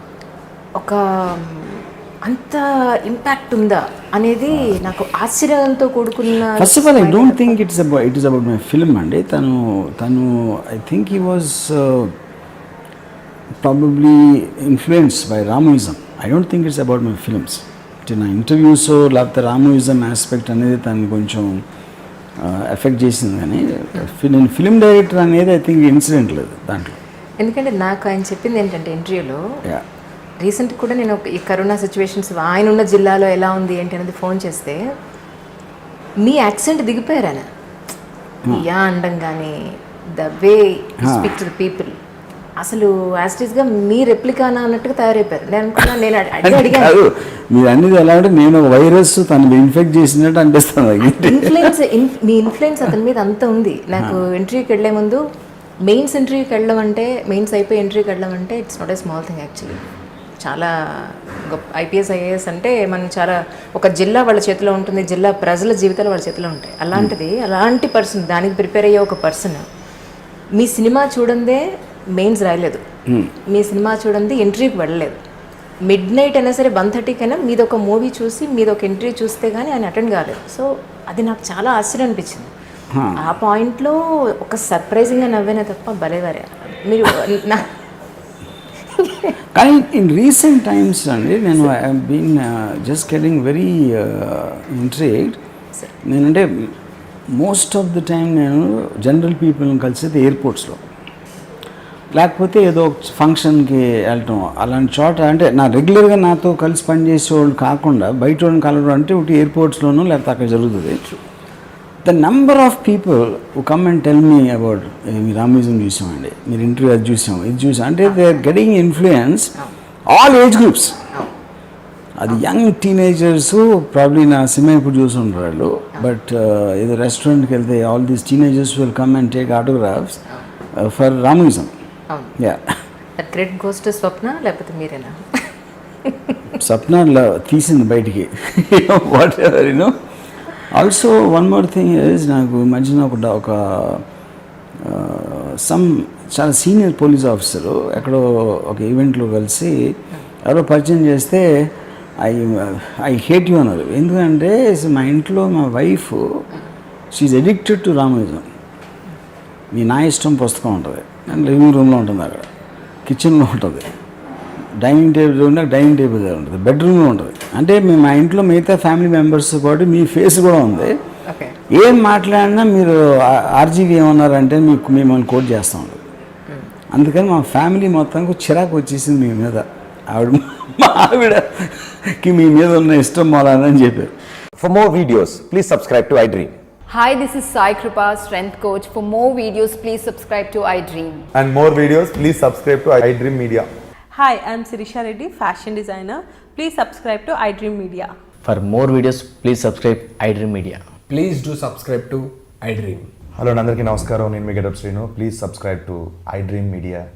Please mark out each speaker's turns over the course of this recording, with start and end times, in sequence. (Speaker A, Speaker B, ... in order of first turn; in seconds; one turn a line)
Speaker A: 0.8-7.5
Speaker B: 6.5-12.1
Speaker B: 13.6-21.6
Speaker B: 22.4-27.0
Speaker A: 27.4-29.4
Speaker A: 30.4-34.8
Speaker A: 36.2-37.5
Speaker A: 38.5-39.6
Speaker A: 40.1-42.0
Speaker B: 41.0-41.3
Speaker A: 42.6-47.0
Speaker B: 46.4-51.7
Speaker A: 51.2-55.2
Speaker A: 55.8-59.8
Speaker A: 60.4-69.6
Speaker A: 70.5-72.8
Speaker A: 73.5-75.2
Speaker A: 75.8-82.5
Speaker B: 82.9-83.3
Speaker A: 83.2-87.7
Speaker A: 89.0-89.3
Speaker B: 89.5-95.4
Speaker B: 96.0-96.7
Speaker B: 97.3-100.8
Speaker B: 102.1-111.0
Speaker B: 112.0-119.5
Speaker B: 120.1-121.0
Speaker B: 122.2-130.2
Speaker B: 130.7-131.7
Speaker B: 132.4-132.6
Speaker A: 133.2-135.5
Speaker A: 136.1-136.3
Speaker B: 136.6-140.0
Speaker B: 140.7-144.0
Speaker B: 144.8-156.4
Speaker B: 157.1-158.4
Speaker B: 159.7-162.4
Speaker B: 163.1-163.9
Speaker B: 164.8-171.0
Speaker A: 171.3-171.6
Speaker B: 171.7-176.0
Speaker B: 176.9-184.1
Speaker C: 184.6-186.5
Speaker D: 186.9-191.2
Speaker E: 191.3-193.7
Speaker F: 194.1-198.1
Speaker G: 198.6-200.8
Speaker H: 201.1-203.1
Speaker E: 203.3-207.1